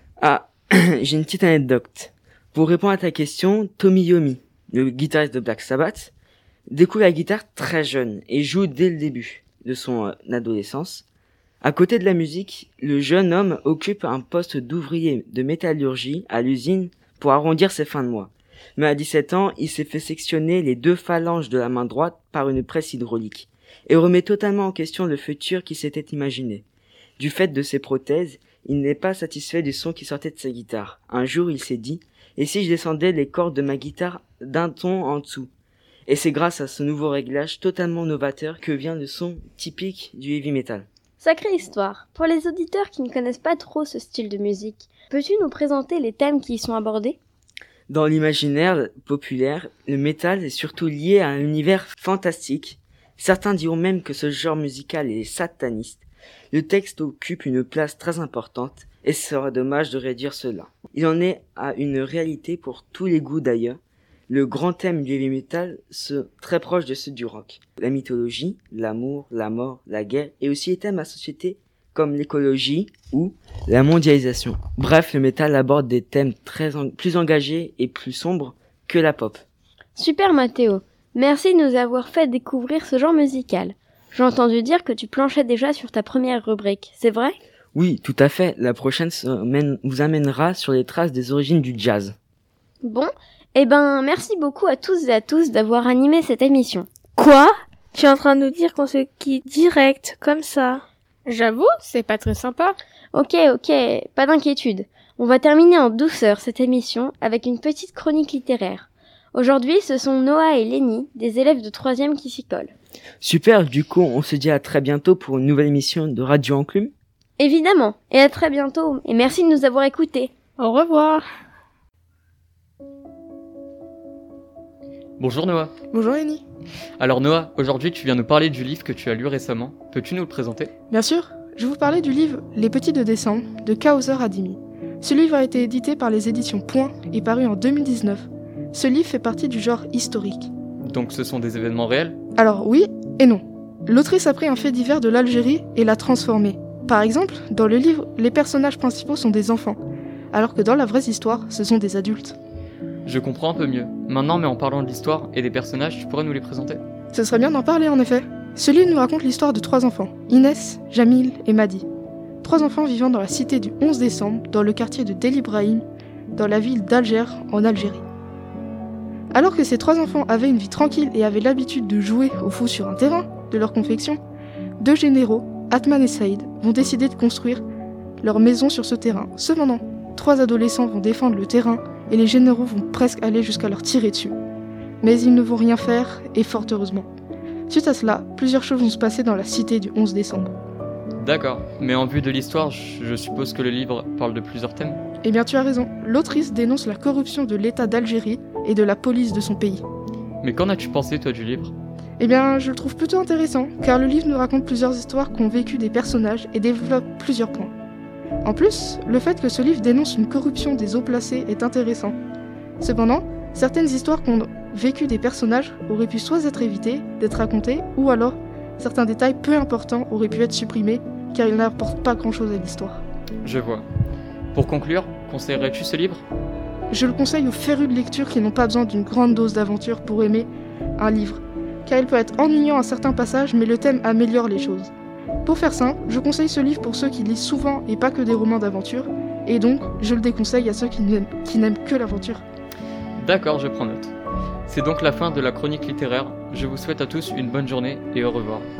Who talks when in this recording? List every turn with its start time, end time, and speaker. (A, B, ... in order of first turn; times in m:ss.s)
0:00.2-0:06.1 A
0:06.7-0:11.0 A
0:11.6-0:26.6 A
0:27.2-0:35.5 A
0:36.1-0:40.9 A
0:41.2-0:47.2 B
0:47.9-1:19.4 A
1:20.0-1:27.4 B
1:27.7-1:32.1 A
1:32.8-1:36.9 B
1:37.2-1:40.8 C
1:41.3-1:42.8 D
1:43.1-1:52.7 B
1:53.2-1:56.9 A
1:57.4-2:00.3 B
2:00.6-2:01.3 D
2:05.2-2:05.7 E
2:05.9-2:06.4 F
2:07.0-2:10.7 E
2:10.9-2:20.5 F
2:20.8-2:22.2 E
2:22.4-2:29.8 F
2:30.3-2:32.4 F
2:33.0-2:36.8 E
2:37.1-2:41.8 F
2:42.4-2:45.8 F
2:46.4-2:48.0 F
2:49.3-2:54.2 F
2:54.8-2:57.6 F
2:58.2-3:04.3 F
3:05.0-3:07.1 F
3:07.7-3:10.5 F
3:11.2-3:15.0 E
3:15.2-3:19.8 F
3:20.4-3:21.7 E
3:22.2-3:27.7 F
3:28.4-3:32.2 F
3:32.8-3:43.0 F
3:43.4-3:43.9 E
3:44.5-3:46.2 E
3:46.9-3:54.9 F
3:55.4-4:02.4 F
4:03.2-4:04.1 E
4:04.7-4:08.7 E